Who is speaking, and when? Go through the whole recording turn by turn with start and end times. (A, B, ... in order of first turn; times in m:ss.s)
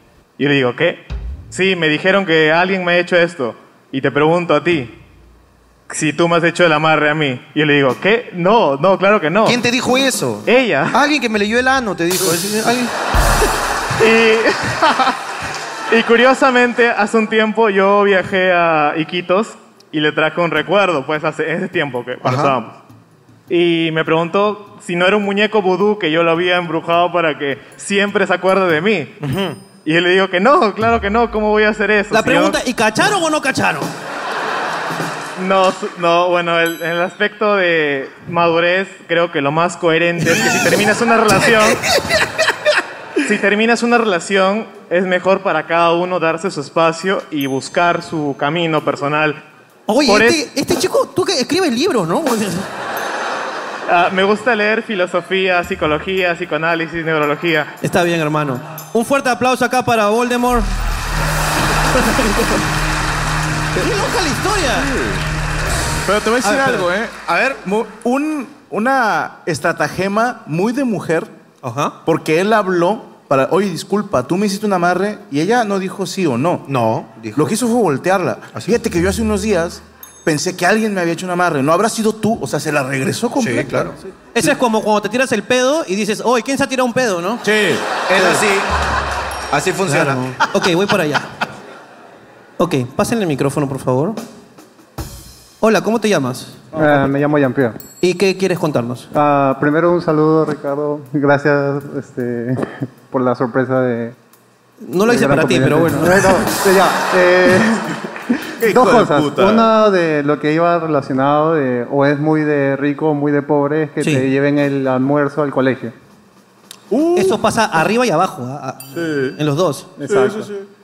0:00.4-0:04.9 A
0:05.9-0:09.6 A
0:09.4-0:12.9 B
0:10.4-0:11.0 A
0:14.0-0:15.2 A
0:15.9-0:22.8 A
0:22.2-0:22.5 B
0:23.5-0:29.2 A
0:29.2-0:29.6 B
0:29.8-0:32.6 A
0:32.1-0:33.9 C
0:35.4-0:41.8 A
0:43.2-0:49.4 A
0:49.9-0:52.7 C
0:50.0-0:50.4 A
0:53.9-0:57.7 A
0:57.8-1:00.7 C
1:01.9-1:02.7 C
1:03.8-1:04.9 C
1:04.8-1:05.2 D
1:06.0-1:11.3 D
1:06.4-1:06.8 C
1:07.3-1:07.6 B
1:11.6-1:11.9 C
1:12.0-1:16.7 D
1:16.7-1:17.5 B
1:17.3-1:24.1 D
1:23.4-1:23.9 B
1:24.3-1:27.4 C
1:27.4-1:28.4 D
1:28.1-1:28.7 B
1:29.5-1:30.2 B
1:29.8-1:31.3 C
1:32.6-1:34.2 C
1:35.6-1:36.6 C
1:36.8-1:37.8 E
1:38.0-1:39.1 C
1:39.1-1:44.1 E
1:44.8-1:46.4 C
1:45.0-1:48.0 E
1:48.6-1:49.7 D
1:48.6-1:55.9 E
1:54.0-1:54.3 C
1:56.9-1:57.4 D
1:57.1-1:59.9 C
1:58.9-1:59.4 D
2:00.0-2:00.5 E
2:00.0-2:00.7 D